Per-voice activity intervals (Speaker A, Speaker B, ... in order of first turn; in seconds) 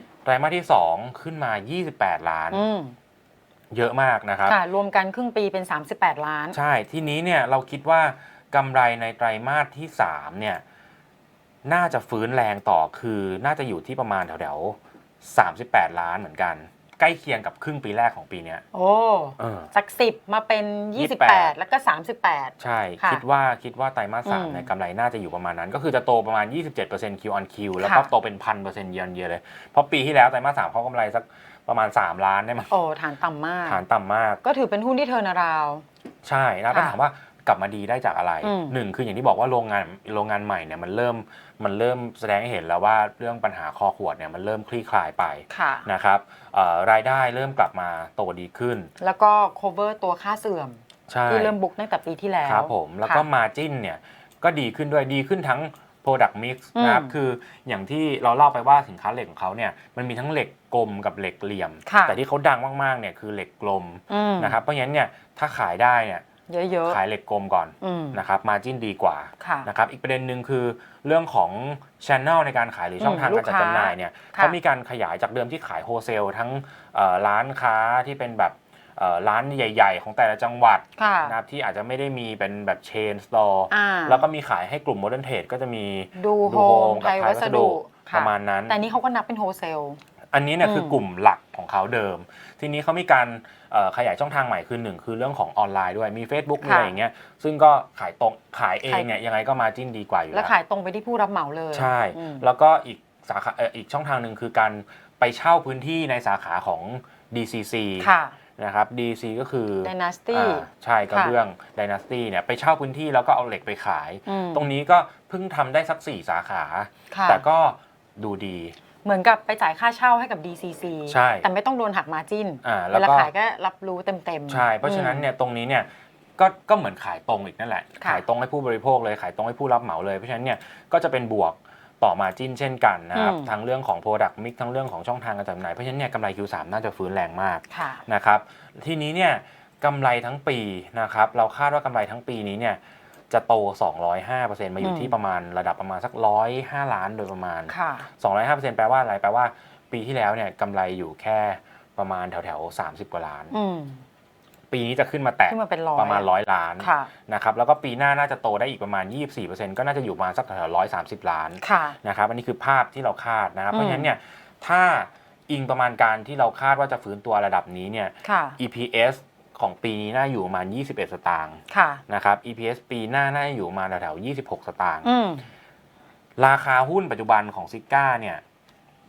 Speaker A: 0.2-2.6, 3.7-4.6, 6.5-10.6, 11.6-18.6, 19.4-19.7, 20.9-21.5, 22.6-32.7, 33.6-34.4, 36.2-48.9, 51.1-51.5, 52.4-66.2, 66.8-88.8, 90.3-100.5, 101.7-118.7, 121.1-121.5, 122.6-123.3, 124.5-153.5, 154.7-175.1, 176.4-178.4
Speaker B: 2.5-3.0, 4.4-6.6, 18.7-23.2, 24.2-24.7, 27.8-28.1, 32.7-33.8, 34.4-35.8, 36.7-37.0, 38.4-38.8, 45.5-45.9, 49.0-53.3, 56.7-57.1, 61.9-62.2, 64.1-64.6, 66.5-67.0, 67.8-68.2, 69.4-69.7, 73.0-74.6, 81.0-81.4, 83.7-84.2, 86.1-90.0, 90.6-91.0, 96.6-96.9, 100.3-102.5, 108.0-108.3, 109.8-111.3, 114.3-114.7, 117.1-117.4, 119.0-125.3, 133.1-133.5, 137.7-138.0, 144.8-145.1, 147.7-148.1, 153.5-154.0, 155.5-156.3, 156.8-157.1, 161.6-162.0, 163.7-164.1, 168.2-168.6, 171.7-172.0, 175.0-175.4